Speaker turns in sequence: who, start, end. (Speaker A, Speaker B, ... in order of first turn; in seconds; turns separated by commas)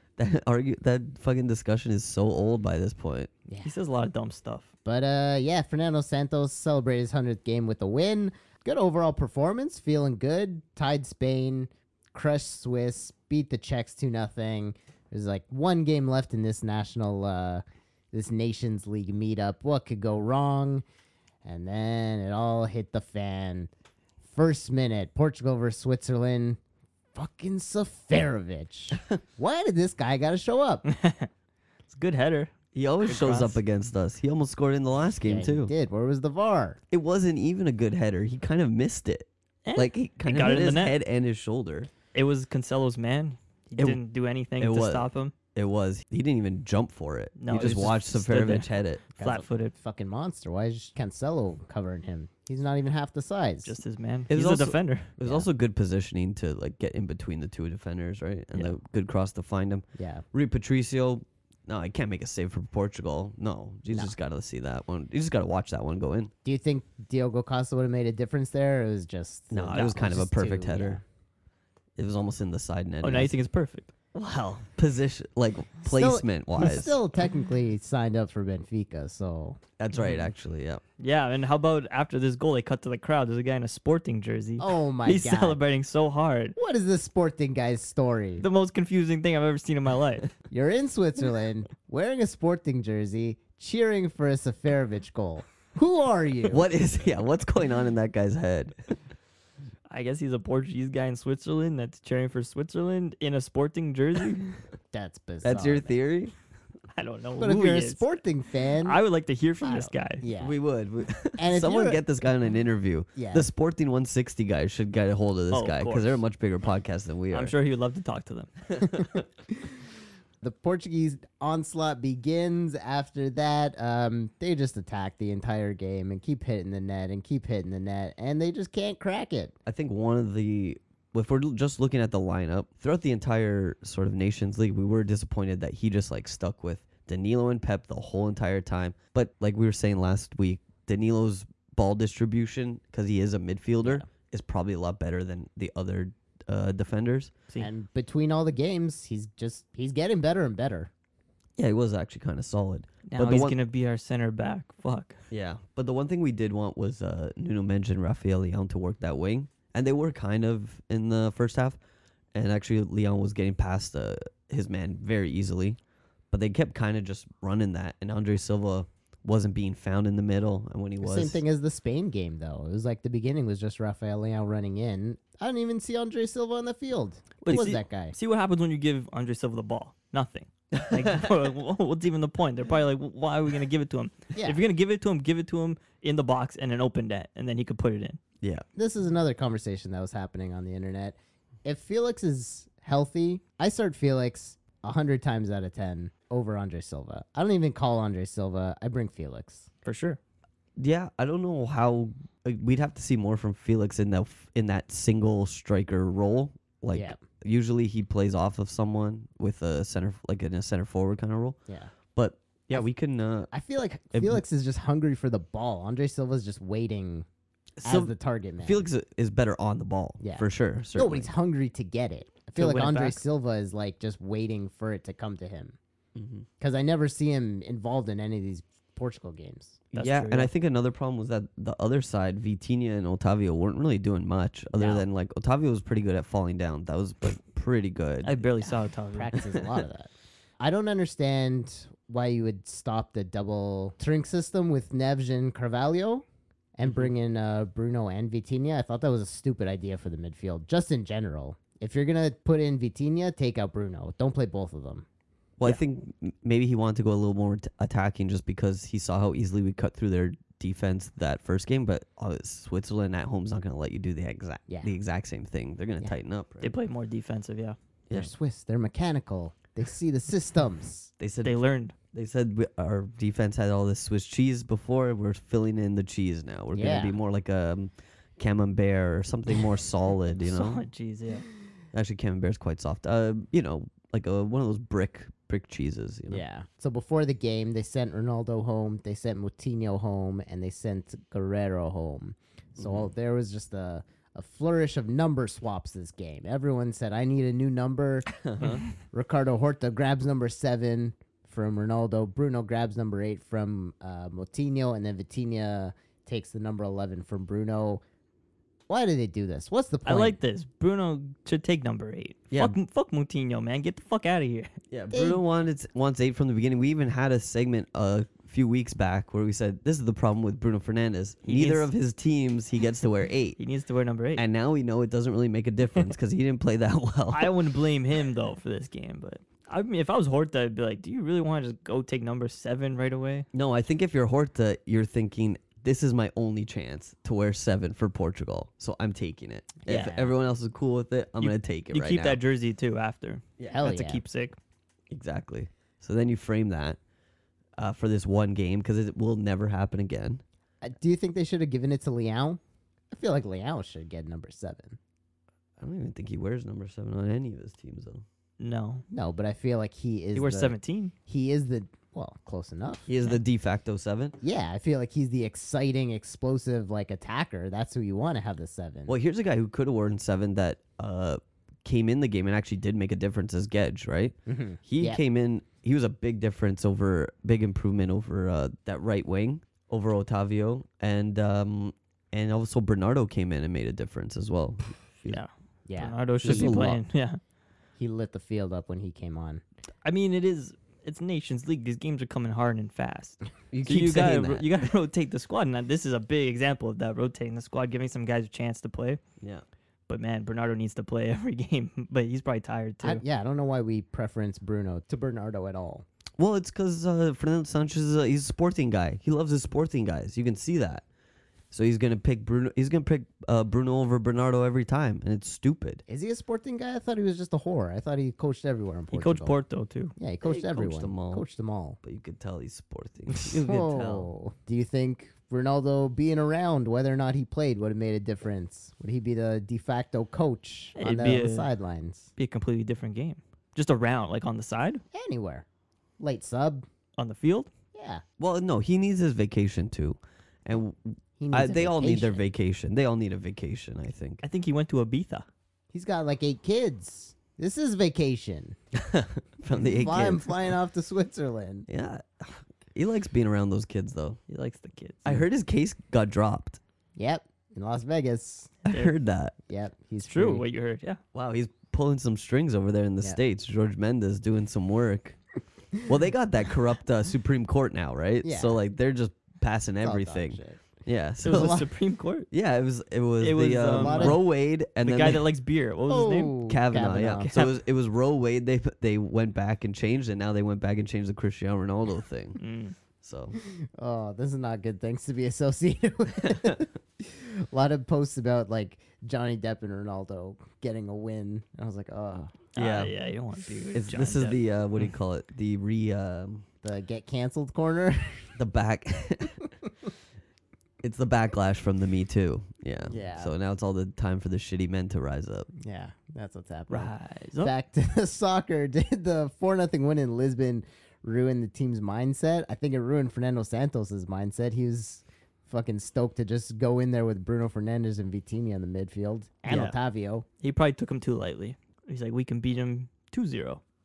Speaker A: 0.2-3.3, Speaker B: 3.5-3.7, Speaker C: 3.6-4.7, Speaker B: 4.8-20.8, Speaker B: 21.4-23.7, Speaker B: 24.3-26.6, Speaker B: 27.1-30.8, Speaker C: 30.9-31.3, Speaker C: 31.9-33.6, Speaker A: 32.7-35.7, Speaker B: 35.2-36.8, Speaker A: 36.9-41.9, Speaker C: 39.6-41.0, Speaker C: 42.1-45.3, Speaker A: 44.6-49.0, Speaker C: 47.4-49.7, Speaker B: 49.2-53.8, Speaker C: 53.6-55.1, Speaker A: 54.3-66.3, Speaker B: 55.2-55.5, Speaker B: 60.0-60.2, Speaker B: 66.4-71.0, Speaker A: 69.5-71.0, Speaker A: 72.0-73.3, Speaker C: 73.0-73.9, Speaker A: 74.1-77.0, Speaker B: 75.8-79.6, Speaker A: 79.8-80.8, Speaker C: 80.0-80.2, Speaker C: 81.0-86.5, Speaker B: 84.6-85.6, Speaker B: 86.5-88.4, Speaker C: 88.4-90.3, Speaker B: 90.5-96.7, Speaker A: 96.5-99.0, Speaker C: 99.9-104.5, Speaker B: 104.9-106.0, Speaker A: 105.4-106.3, Speaker C: 106.9-108.0, Speaker B: 107.4-109.0, Speaker C: 108.8-110.2, Speaker B: 109.6-110.6, Speaker A: 110.3-117.5, Speaker B: 111.4-112.0, Speaker B: 113.1-113.5, Speaker C: 115.5-116.2, Speaker C: 117.3-118.5, Speaker A: 118.8-119.1, Speaker B: 120.4-129.6, Speaker A: 129.7-147.3, Speaker B: 147.6-150.9, Speaker A: 151.6-153.6, Speaker C: 153.1-155.2, Speaker A: 155.3-161.8, Speaker A: 162.3-165.8, Speaker A: 166.3-171.4, Speaker B: 171.0-178.1, Speaker C: 177.4-188.2, Speaker A: 180.7-181.2, Speaker B: 184.3-184.6, Speaker B: 188.8-199.7, Speaker C: 199.8-200.2, Speaker A: 200.8-211.6, Speaker B: 206.9-207.2, Speaker B: 211.7-211.9, Speaker A: 212.1-213.5, Speaker B: 213.5-217.2, Speaker A: 214.1-214.4, Speaker A: 217.8-221.3, Speaker B: 217.8-218.8, Speaker B: 220.2-225.8, Speaker C: 222.6-223.2, Speaker A: 226.1-226.4, Speaker B: 226.6-229.8, Speaker A: 229.9-238.5, Speaker C: 229.9-230.5, Speaker B: 234.7-235.0, Speaker C: 238.2-239.3, Speaker B: 238.6-246.2, Speaker B: 246.8-255.0, Speaker A: 255.6-266.7, Speaker B: 264.7-264.9, Speaker C: 266.6-267.8, Speaker B: 268.1-271.1, Speaker A: 271.2-271.5, Speaker C: 271.4-271.9, Speaker A: 272.1-280.8, Speaker B: 276.7-277.1, Speaker C: 280.4-281.5, Speaker A: 281.9-286.4, Speaker B: 286.3-308.0, Speaker A: 292.8-293.1, Speaker A: 298.4-298.8, Speaker B: 308.9-310.4, Speaker C: 310.0-314.7, Speaker A: 312.5-312.8, Speaker A: 314.9-323.6, Speaker B: 315.1-315.4, Speaker C: 321.4-321.9, Speaker C: 323.6-324.4, Speaker A: 324.3-327.6, Speaker C: 327.3-333.5, Speaker A: 333.5-342.4, Speaker B: 339.8-340.3, Speaker C: 339.9-340.1, Speaker C: 341.4-344.6, Speaker B: 343.7-344.2, Speaker A: 345.1-347.0, Speaker A: 347.8-350.4, Speaker B: 350.8-352.6, Speaker B: 353.1-355.0, Speaker A: 355.8-358.2, Speaker C: 358.6-359.0, Speaker B: 359.1-360.8, Speaker C: 360.3-361.1, Speaker B: 361.3-363.1, Speaker A: 363.1-364.4, Speaker B: 364.4-369.1, Speaker A: 369.1-385.4, Speaker B: 374.5-375.2, Speaker C: 385.3-387.4, Speaker B: 385.9-386.8, Speaker A: 386.4-387.0, Speaker B: 388.0-389.6, Speaker C: 390.0-399.2, Speaker A: 393.7-394.6, Speaker C: 400.1-403.2, Speaker B: 403.0-406.0, Speaker A: 406.4-411.0, Speaker A: 411.7-416.0, Speaker B: 416.1-419.6, Speaker C: 419.1-420.1, Speaker B: 420.2-422.0, Speaker A: 420.4-421.4, Speaker A: 422.0-424.3, Speaker B: 423.5-432.3, Speaker C: 430.9-431.7, Speaker C: 432.4-435.0, Speaker B: 435.1-435.6, Speaker B: 436.2-436.8, Speaker C: 437.2-437.7, Speaker B: 437.9-438.2, Speaker A: 438.4-444.4, Speaker B: 441.4-442.4, Speaker C: 444.4-445.4, Speaker B: 445.9-448.8, Speaker A: 448.9-450.5, Speaker B: 449.9-451.9, Speaker A: 451.9-454.4, Speaker C: 454.5-455.3, Speaker A: 455.2-456.8, Speaker B: 457.2-458.8, Speaker C: 458.9-459.1, Speaker A: 458.9-459.5, Speaker B: 459.7-460.6, Speaker C: 460.3-461.2, Speaker A: 461.3-465.4, Speaker A: 466.0-471.8, Speaker B: 468.4-468.8, Speaker B: 470.0-470.8, Speaker C: 471.4-472.5, Speaker B: 471.5-471.9, Speaker A: 472.5-475.4, Speaker C: 473.4-474.4, Speaker B: 473.9-474.4, Speaker C: 475.0-476.5, Speaker B: 476.1-477.5, Speaker A: 476.7-482.6, Speaker C: 477.4-477.7, Speaker C: 482.6-482.9, Speaker A: 483.2-483.6, Speaker B: 483.6-492.6, Speaker A: 486.4-486.7, Speaker C: 492.7-494.6, Speaker A: 492.8-493.1, Speaker A: 493.9-496.6, Speaker B: 496.8-498.5, Speaker A: 498.6-499.6, Speaker A: 501.0-505.7, Speaker B: 503.1-503.5, Speaker B: 505.8-520.5, Speaker C: 506.9-507.7, Speaker C: 519.7-520.0, Speaker C: 520.6-523.8